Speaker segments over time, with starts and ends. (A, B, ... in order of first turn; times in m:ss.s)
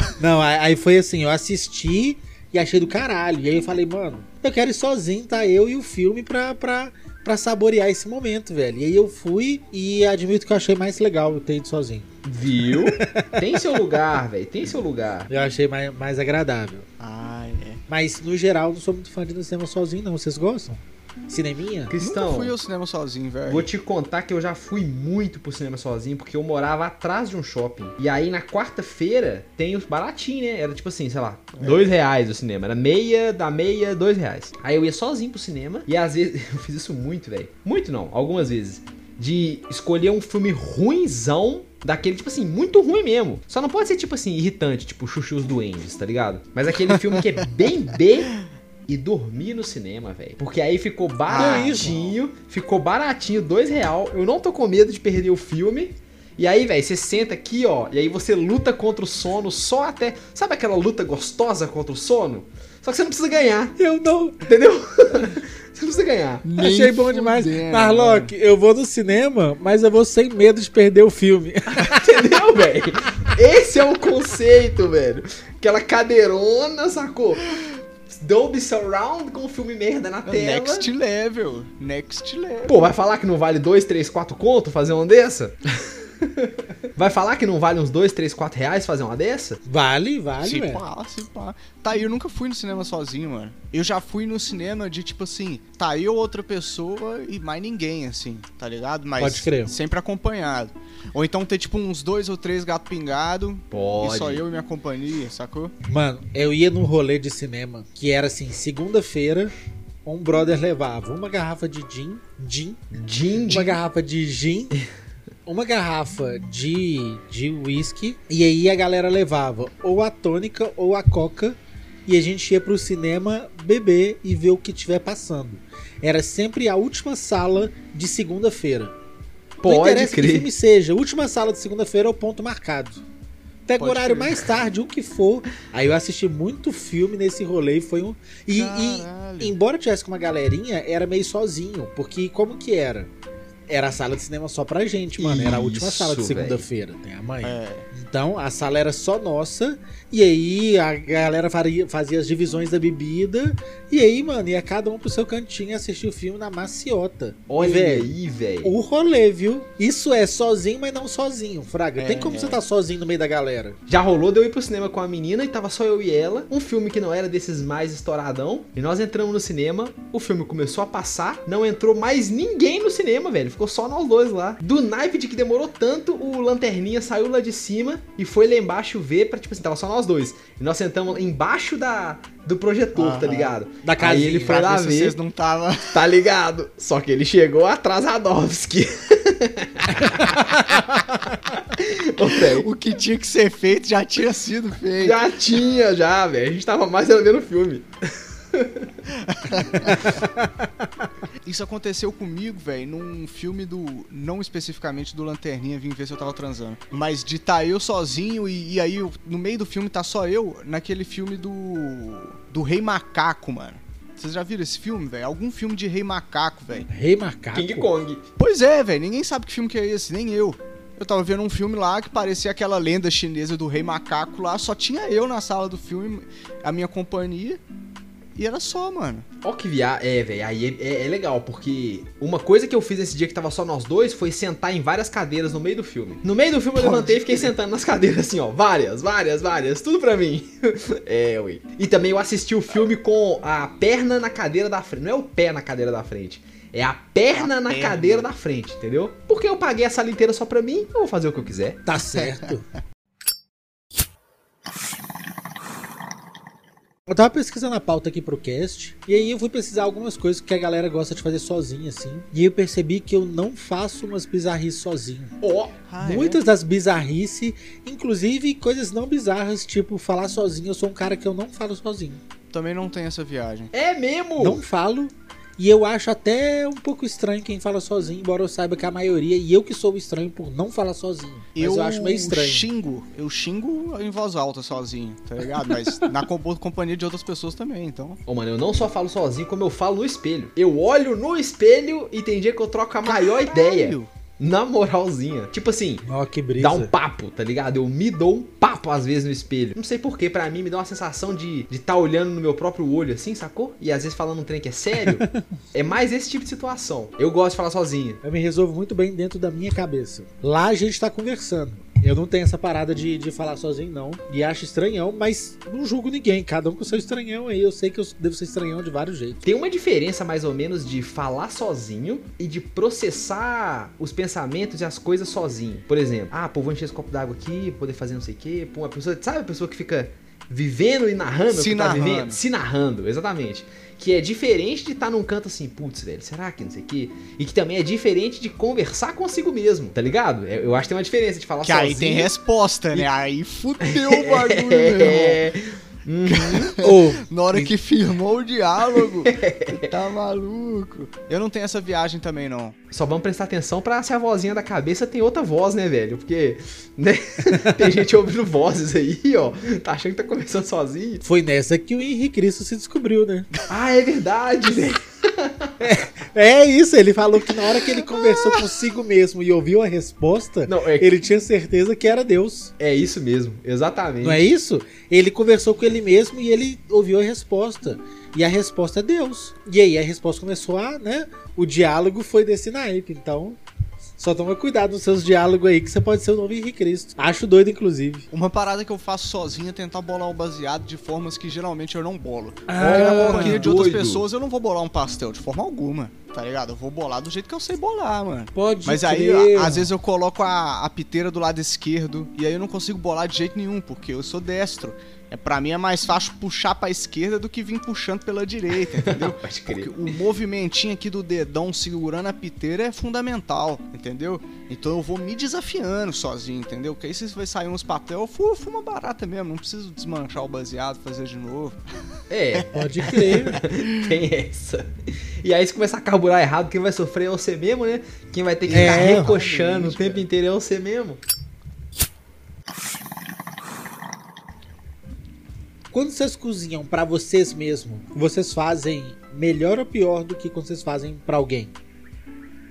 0:00.1-0:12.1 A
0:12.2-0:15.3 B
0:13.0-0:13.4 A
0:15.3-0:16.8 A
0:17.0-0:17.8 C
0:17.9-0:21.9 A
0:21.9-0:22.5 B
0:22.0-0:23.7 C
0:23.4-0:48.3 B
0:31.6-0:31.9 C
0:48.9-1:03.7 B
0:51.3-0:52.1 C
0:51.3-0:52.0 A
1:03.8-1:04.4 A
1:04.4-1:06.4 B
1:06.4-1:08.3 C
1:06.6-1:12.1 A
1:11.9-1:17.6 B
1:18.1-1:20.9 B
1:20.2-1:22.8 C
1:22.6-1:29.6 B
1:29.6-1:30.8 A
1:30.4-1:45.7 C
1:39.2-1:39.7 A
1:43.7-1:44.4 B
1:45.9-1:49.5 A
1:50.0-1:52.8 A
1:52.9-1:53.8 B
1:53.4-1:54.8 A
1:55.4-2:08.9 A
2:09.6-2:10.5 B
2:09.6-2:13.0 A
2:13.7-2:23.1 A
2:13.8-2:14.5 C
2:18.5-2:19.6 C
2:23.7-2:43.8 A
2:25.2-2:26.6 B
2:27.4-2:27.9 C
2:37.5-2:38.7 B
2:42.0-2:42.6 C
2:43.9-3:05.2 B
3:02.9-3:03.6 C
3:03.8-3:04.6 A
3:04.4-3:06.1 C
3:05.9-3:10.6 B
3:11.7-3:12.7 B
3:12.2-3:15.2 C
3:15.0-3:17.9 B
3:18.5-3:18.9 B
3:19.1-3:20.1 C
3:19.8-3:20.6 A
3:21.4-3:36.9 C
3:36.9-3:37.9 A
3:37.5-3:38.2 B
3:38.4-3:47.6 C
3:48.4-3:49.2 C
3:49.4-4:11.8 B
3:56.8-3:57.4 C
4:07.3-4:08.3 C
4:11.8-4:12.6 A
4:17.1-4:25.4 A
4:25.4-4:25.8 B
4:25.9-4:26.4 C
4:26.0-4:32.2 A
4:32.5-4:33.7 C
4:33.7-4:34.6 B
4:34.4-4:42.7 A
4:41.5-4:48.2 C
4:45.6-4:46.1 A
4:48.3-4:56.0 B
4:53.0-4:54.1 C
4:56.0-4:56.9 A
4:56.6-5:08.2 B
5:08.2-5:19.4 A
5:19.4-5:42.3 B
5:31.5-5:32.4 C
5:41.6-5:45.4 C
5:43.8-5:46.7 B
5:46.3-5:52.8 C
5:46.8-5:47.2 A
5:49.0-5:50.0 B
5:52.9-6:01.2 B
6:01.2-6:03.5 A
6:03.7-6:05.7 B
6:05.8-6:12.7 A
6:08.1-6:08.6 C
6:10.6-6:11.1 B
6:12.8-6:14.4 B
6:14.2-6:23.6 A
6:24.2-6:28.3 A
6:28.3-7:01.8 C
6:32.7-6:33.7 A
6:32.8-6:34.2 B
6:38.5-6:39.9 A
6:48.9-6:50.1 B
7:02.3-7:11.2 B
7:02.5-7:04.1 C
7:02.7-7:03.6 A
7:08.7-7:10.2 C
7:08.7-7:09.4 A
7:15.9-7:21.7 A